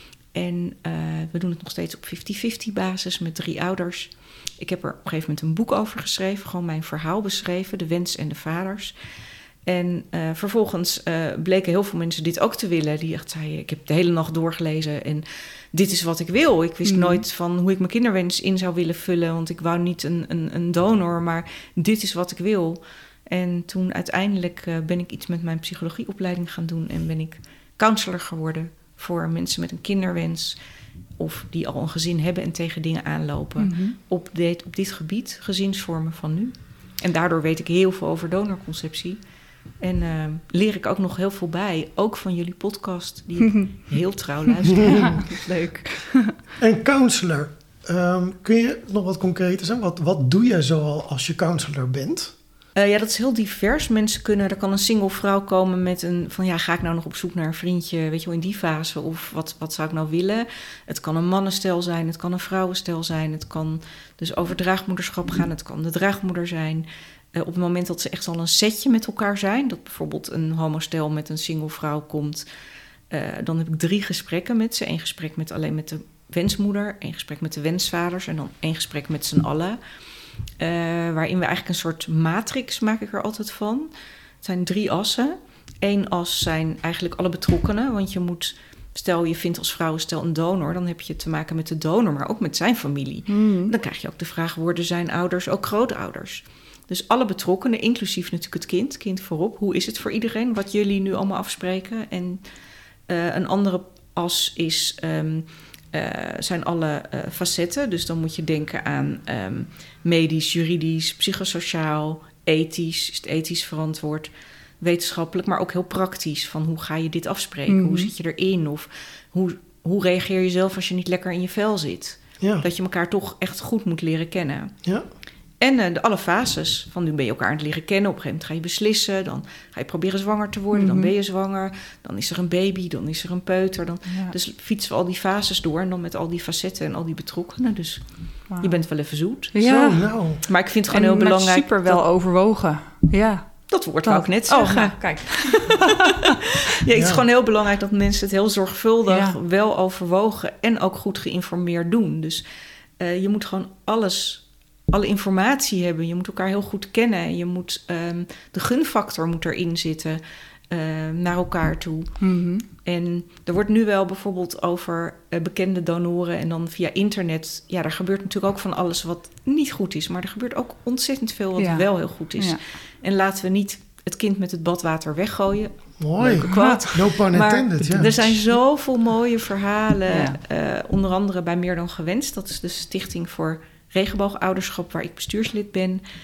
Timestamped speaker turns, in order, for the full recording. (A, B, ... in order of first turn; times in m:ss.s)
0:00.3-0:09.0 A
0:09.7-0:30.6 A
0:16.8-0:17.2 B
0:31.2-0:39.2 A
0:33.6-0:34.0 B
0:39.8-0:46.0 A
0:43.4-0:43.7 B
0:44.8-0:46.4 B
0:44.8-0:45.1 C
0:46.6-0:52.3 C
0:52.8-1:12.4 A
1:13.1-1:19.8 A
1:20.6-1:23.9 A
1:24.4-1:42.4 A
1:33.3-1:33.7 B
1:43.1-2:04.7 A
1:57.7-1:58.1 B
2:02.4-2:02.6 C
2:05.6-2:18.0 A
2:10.7-2:11.1 B
2:14.1-2:14.3 B
2:18.5-2:18.8 B
2:18.6-2:19.5 A
2:19.5-2:20.1 B
2:19.6-2:20.4 C
2:20.5-2:22.0 A
2:20.9-2:26.3 B
2:23.7-2:32.4 A
2:27.0-2:27.2 C
2:29.1-2:29.4 B
2:33.0-2:42.2 A
2:42.2-2:42.7 B
2:42.8-3:06.0 A
2:51.6-2:51.8 B
2:56.0-2:58.4 C
2:56.5-2:57.0 B
3:00.1-3:00.4 B